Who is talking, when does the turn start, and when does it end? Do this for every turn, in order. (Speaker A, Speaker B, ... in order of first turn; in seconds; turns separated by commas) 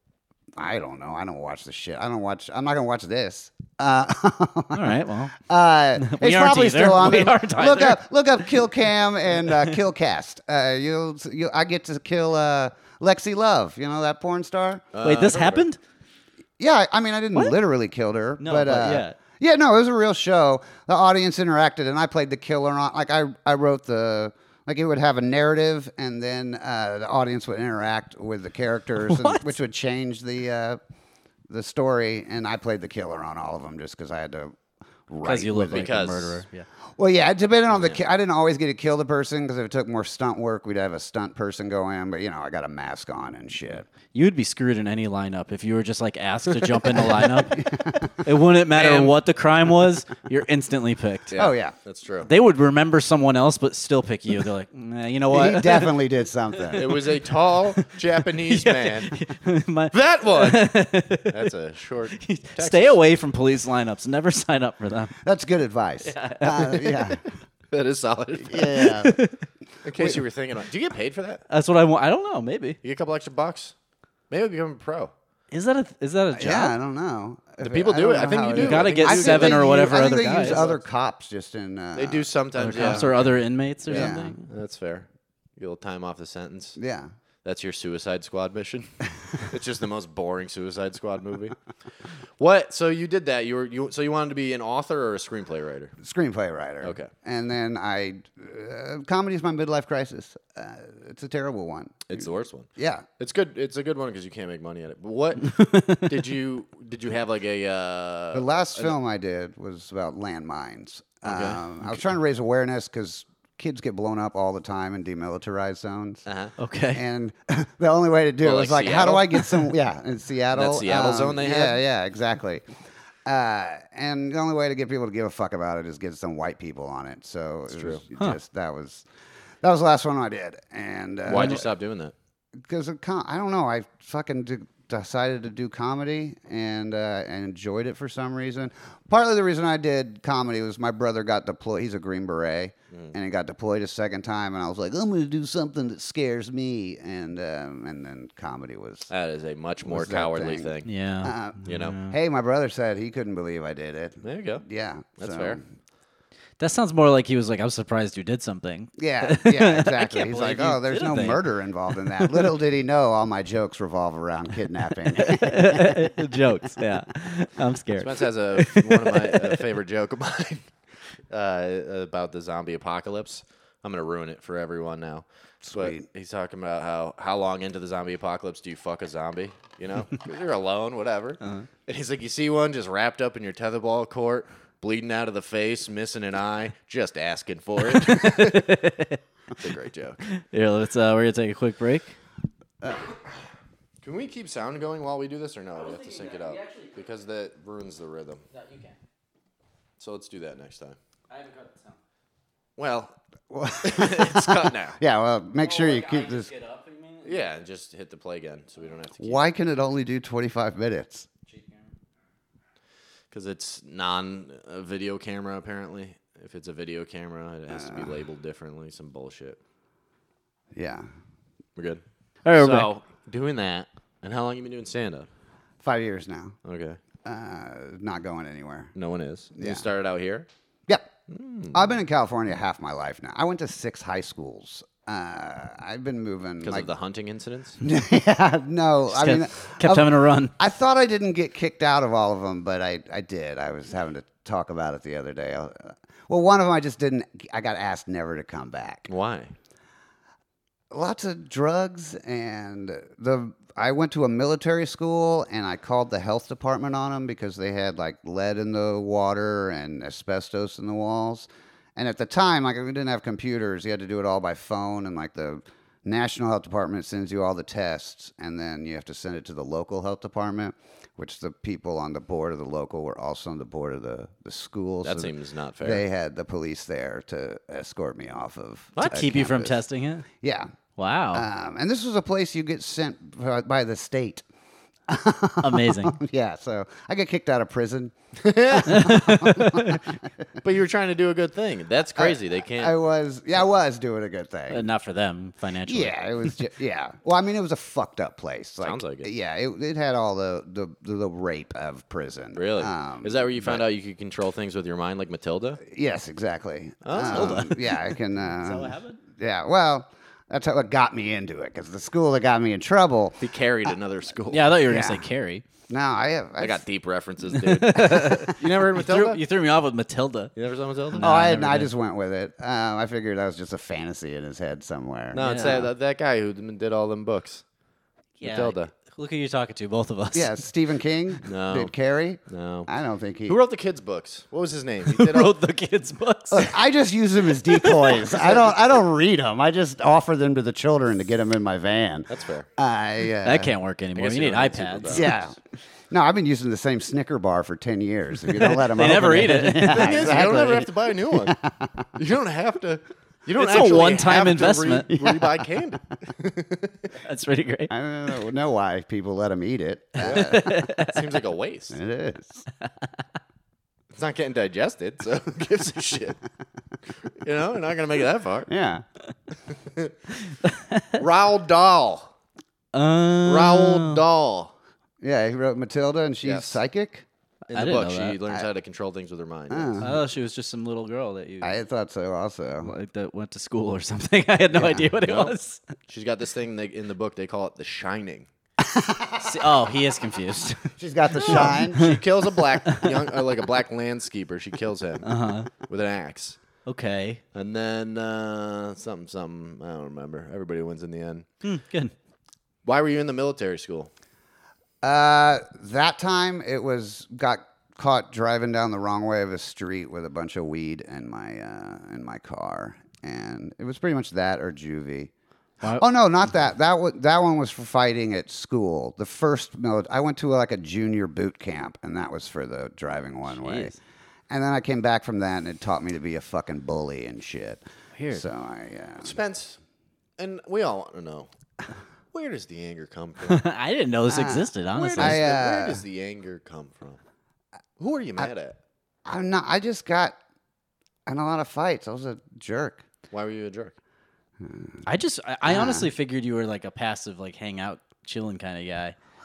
Speaker A: 0.6-14.8, Speaker B: 4.7-5.4, Speaker B: 6.0-8.0, Speaker C: 14.9-15.6, Speaker B: 15.0-15.8, Speaker A: 16.6-30.8, Speaker B: 18.4-19.1, Speaker B: 29.0-29.5, Speaker A: 31.5-34.6, Speaker A: 35.1-35.9, Speaker B: 35.2-36.6, Speaker C: 35.7-36.4, Speaker A: 37.0-43.9, Speaker C: 37.7-38.0, Speaker B: 44.1-51.3, Speaker C: 46.6-47.0, Speaker A: 47.4-48.1, Speaker C: 48.7-49.1, Speaker C: 51.3-52.3, Speaker A: 51.4-51.7, Speaker B: 52.2-55.9, Speaker A: 55.3-57.0, Speaker B: 56.7-57.0, Speaker C: 56.7-59.1, Speaker B: 58.5-61.5, Speaker C: 59.9-60.7, Speaker C: 61.3-63.0, Speaker B: 62.1-65.2, Speaker A: 65.2-67.2, Speaker B: 66.0-67.2, Speaker C: 67.7-68.9, Speaker A: 68.5-69.2, Speaker B: 68.8-69.4, Speaker C: 69.8-71.4, Speaker B: 71.5-72.8, Speaker C: 72.8-73.7, Speaker C: 74.3-75.1, Speaker B: 75.5-76.8, Speaker A: 76.3-83.3, Speaker C: 77.6-80.8, Speaker B: 78.5-80.6, Speaker C: 82.0-83.3, Speaker B: 82.5-84.5, Speaker C: 83.8-86.8, Speaker A: 83.9-84.3, Speaker A: 86.8-87.1, Speaker C: 87.4-91.5, Speaker C: 92.4-95.9, Speaker A: 96.0-103.0, Speaker C: 96.8-97.1, Speaker C: 102.1-102.7, Speaker C: 103.2-108.9, Speaker B: 105.4-106.1, Speaker A: 108.3-116.2, Speaker C: 111.2-111.6, Speaker C: 116.2-116.5, Speaker B: 116.6-117.0, Speaker A: 116.9-122.6, Speaker C: 118.4-119.4, Speaker C: 120.5-121.8, Speaker A: 123.2-129.1, Speaker C: 127.7-128.0, Speaker A: 129.6-131.7, Speaker C: 131.3-132.1, Speaker B: 131.3-131.6, Speaker A: 132.6-149.1, Speaker C: 149.1-150.9, Speaker A: 149.8-155.6, Speaker B: 150.8-152.2, Speaker C: 151.7-151.9, Speaker C: 154.2-154.6, Speaker C: 155.2-155.6, Speaker B: 156.6-161.4, Speaker A: 159.0-166.1, Speaker B: 165.1-169.6, Speaker C: 167.9-170.7, Speaker C: 171.3-188.7, Speaker A: 175.6-176.0, Speaker B: 181.4-181.7, Speaker B: 187.9-189.2, Speaker C: 189.6-190.2, Speaker B: 190.3-192.2, Speaker C: 194.0-198.4, Speaker B: 195.8-196.9, Speaker B: 198.5-198.9, Speaker C: 200.0-200.9, Speaker B: 201.3-202.0, Speaker C: 202.8-203.2, Speaker A: 203.5-206.5, Speaker C: 203.8-205.0, Speaker B: 205.6-207.4, Speaker C: 207.2-209.4, Speaker A: 209.2-211.3, Speaker B: 211.5-211.8, Speaker C: 213.3-219.6, Speaker A: 217.7-218.1, Speaker A: 220.7-221.1, Speaker B: 222.4-222.9, Speaker C: 222.6-225.3, Speaker A: 225.8-226.6, Speaker C: 226.6-227.0, Speaker A: 227.2-228.9, Speaker C: 228.9-230.5, Speaker A: 229.6-229.8, Speaker C: 231.3-231.9, Speaker A: 231.7-236.9, Speaker C: 236.6-237.8, Speaker A: 237.8-249.1, Speaker B: 239.1-240.5, Speaker C: 249.1-249.5, Speaker A: 250.9-279.8, Speaker C: 275.0-276.0, Speaker C: 278.9-279.3, Speaker B: 279.0-280.2, Speaker A: 280.4-280.7, Speaker B: 281.0-281.4, Speaker A: 281.3-284.4, Speaker A: 285.1-288.1, Speaker B: 285.6-286.1, Speaker C: 288.4-289.1, Speaker A: 288.7-290.1, Speaker B: 288.8-290.0, Speaker C: 290.6-292.9, Speaker A: 292.1-294.9, Speaker B: 294.7-296.6, Speaker A: 295.9-303.8, Speaker C: 298.8-299.3, Speaker C: 302.5-305.8, Speaker A: 305.8-313.4, Speaker C: 307.0-307.8, Speaker B: 307.3-307.8, Speaker B: 308.6-309.2, Speaker C: 313.4-314.7, Speaker B: 314.5-315.6, Speaker A: 314.9-315.2, Speaker A: 315.9-316.8, Speaker C: 316.6-319.4, Speaker B: 317.5-320.5, Speaker C: 320.6-321.3, Speaker B: 321.1-321.9, Speaker A: 321.2-325.9, Speaker C: 325.3-327.6, Speaker B: 325.4-325.9, Speaker B: 328.4-330.6, Speaker C: 328.4-328.9, Speaker A: 330.3-333.6, Speaker C: 331.4-331.9, Speaker C: 332.5-332.9, Speaker C: 333.4-335.5, Speaker B: 335.1-336.7, Speaker A: 336.5-343.7, Speaker B: 337.7-338.3, Speaker C: 342.3-342.7, Speaker B: 343.4-345.3, Speaker C: 344.1-345.3, Speaker A: 345.1-345.6, Speaker A: 346.1-352.1, Speaker B: 348.5-350.7, Speaker C: 349.9-351.6, Speaker C: 352.1-357.1, Speaker B: 353.6-355.1, Speaker A: 355.1-355.5, Speaker B: 357.2-357.9, Speaker A: 357.9-360.8, Speaker B: 360.2-361.3, Speaker C: 360.2-362.0, Speaker A: 361.9-362.6, Speaker C: 364.1-366.4, Speaker C: 367.3-368.7, Speaker A: 368.7-369.0, Speaker C: 369.7-370.1, Speaker B: 370.5-371.2, Speaker C: 371.2-372.3, Speaker B: 372.9-374.2, Speaker C: 373.4-374.7, Speaker A: 375.2-377.2, Speaker C: 376.4-376.8, Speaker C: 377.7-380.1, Speaker B: 377.7-378.4, Speaker A: 379.7-380.1, Speaker B: 380.0-381.7, Speaker A: 381.6-382.9, Speaker B: 382.8-385.8, Speaker A: 384.7-385.1, Speaker C: 385.2-385.5, Speaker C: 386.1-388.5, Speaker A: 388.8-389.6, Speaker B: 389.4-392.2, Speaker A: 390.9-392.1, Speaker C: 391.4-396.6, Speaker B: 392.8-393.1, Speaker B: 395.2-395.7, Speaker B: 396.9-397.4, Speaker C: 397.5-401.4, Speaker B: 401.6-402.1, Speaker C: 402.8-404.1, Speaker A: 405.0-415.3, Speaker A: 415.9-423.9, Speaker B: 423.5-424.0, Speaker A: 424.5-427.8, Speaker B: 428.1-428.4, Speaker A: 428.3-429.4, Speaker C: 429.2-429.8, Speaker C: 430.4-431.5, Speaker C: 432.3-433.6, Speaker B: 433.5-435.4, Speaker A: 434.3-436.0, Speaker C: 434.9-437.2, Speaker C: 438.0-438.8, Speaker A: 439.2-440.4, Speaker A: 441.2-443.0, Speaker C: 443.3-443.9, Speaker A: 444.6-445.0, Speaker B: 445.0-449.1, Speaker A: 445.6-446.1